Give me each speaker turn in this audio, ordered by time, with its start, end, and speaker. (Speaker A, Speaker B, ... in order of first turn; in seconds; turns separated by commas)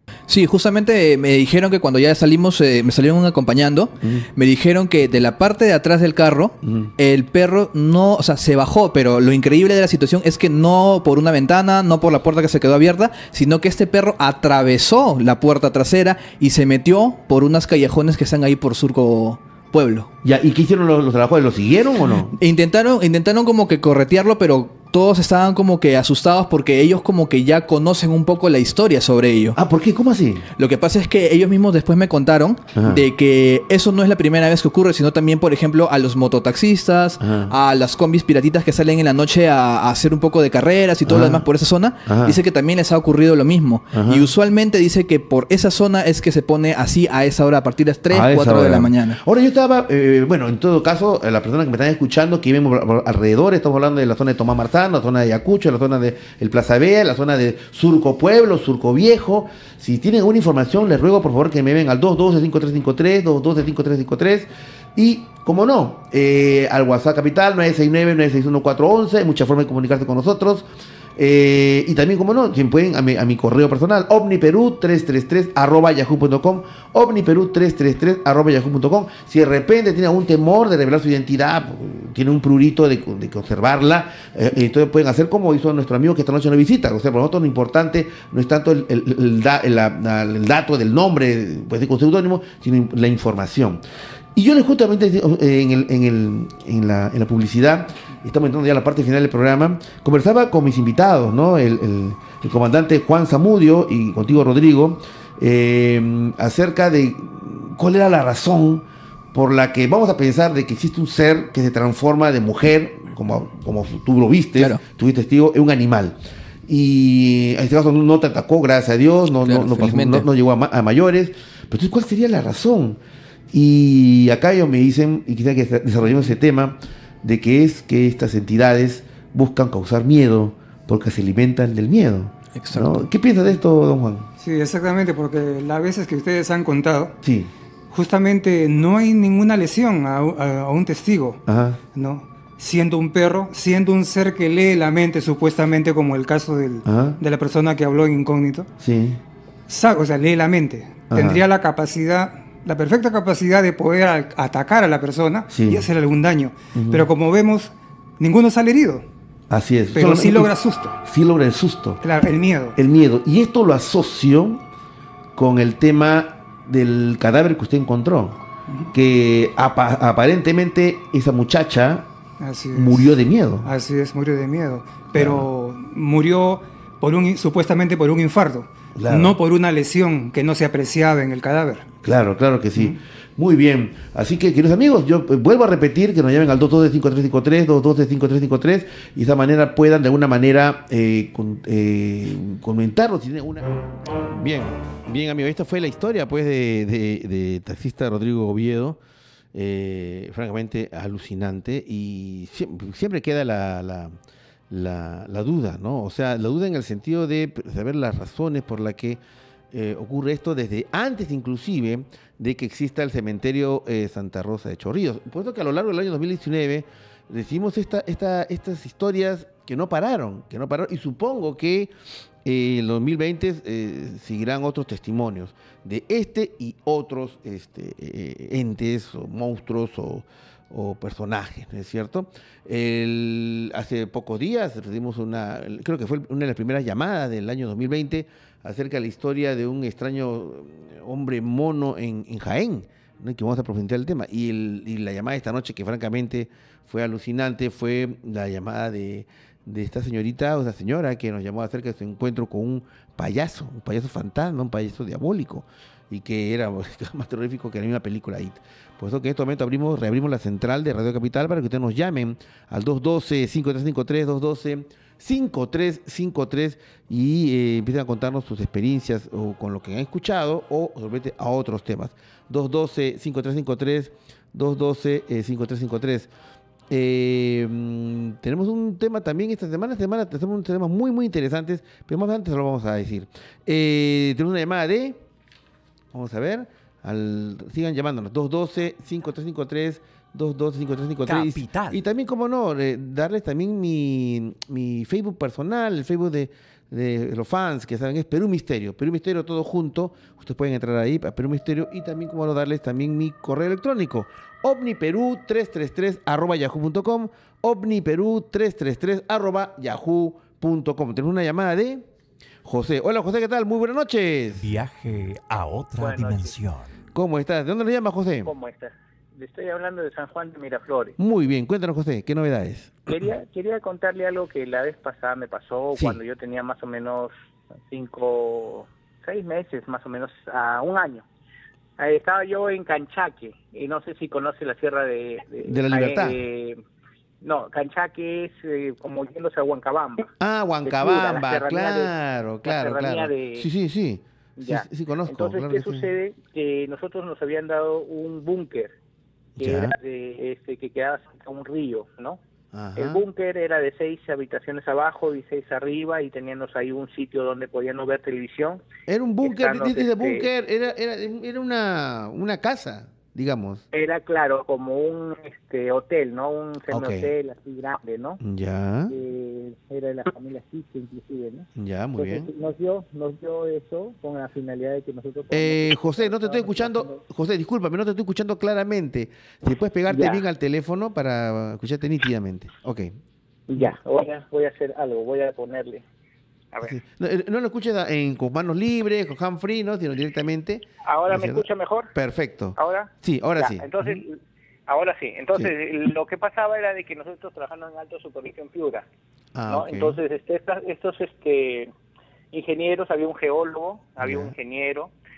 Speaker A: 0.3-20.1, Speaker B: 4.0-4.3, Speaker B: 6.6-6.9, Speaker B: 20.2-22.3, Speaker A: 22.3-29.6, Speaker B: 29.6-30.5, Speaker A: 30.6-49.2, Speaker B: 32.7-33.1, Speaker B: 37.2-37.5, Speaker B: 41.0-41.5, Speaker B: 42.0-42.4, Speaker B: 43.9-44.3, Speaker B: 48.1-93.8, Speaker B: 94.3-123.0, Speaker A: 114.5-114.8, Speaker A: 119.4-120.3, Speaker B: 123.5-134.3, Speaker A: 132.5-133.1, Speaker C: 134.4-137.1, Speaker B: 137.2-137.5, Speaker C: 137.9-141.4, Speaker B: 141.4-141.8, Speaker C: 141.9-148.7, Speaker B: 146.8-147.2, Speaker B: 148.8-149.2, Speaker C: 149.7-159.1, Speaker B: 151.1-151.4, Speaker B: 155.5-155.9, Speaker B: 156.7-157.1, Speaker B: 159.5-162.0, Speaker C: 159.9-160.9, Speaker C: 162.0-162.8, Speaker B: 162.8-164.6, Speaker B: 165.3-168.4, Speaker B: 168.9-172.1, Speaker C: 172.4-181.8, Speaker B: 172.7-173.7, Speaker B: 175.1-175.5, Speaker B: 178.9-179.4, Speaker B: 182.0-199.0, Speaker B: 199.5-204.2, Speaker B: 204.7-209.2, Speaker B: 209.7-221.9, Speaker B: 222.4-276.3, Speaker B: 276.9-285.2, Speaker B: 286.1-312.1, Speaker D: 291.3-292.0, Speaker B: 312.6-314.6, Speaker D: 314.6-317.0, Speaker E: 316.0-316.6, Speaker B: 317.1-318.5, Speaker E: 318.4-321.1, Speaker B: 321.2-323.2, Speaker E: 323.1-331.2, Speaker B: 325.9-326.2, Speaker E: 332.0-336.8, Speaker B: 335.6-336.4, Speaker E: 337.4-340.3, Speaker B: 340.4-346.1, Speaker E: 340.8-342.1, Speaker E: 342.6-343.7, Speaker E: 344.6-349.0, Speaker B: 349.6-349.9, Speaker E: 349.6-352.4, Speaker B: 352.7-353.2, Speaker E: 352.9-358.8, Speaker B: 359.1-363.8, Speaker E: 359.4-360.5, Speaker E: 363.9-368.4, Speaker B: 366.9-367.3, Speaker B: 368.4-369.1, Speaker E: 369.1-377.2, Speaker B: 371.8-372.5, Speaker B: 375.5-383.1, Speaker E: 380.1-380.4, Speaker E: 383.7-386.0, Speaker B: 386.8-394.2, Speaker E: 391.0-392.1, Speaker E: 392.8-399.1, Speaker B: 399.5-400.2, Speaker E: 399.7-401.9, Speaker E: 402.5-405.1, Speaker B: 404.2-404.5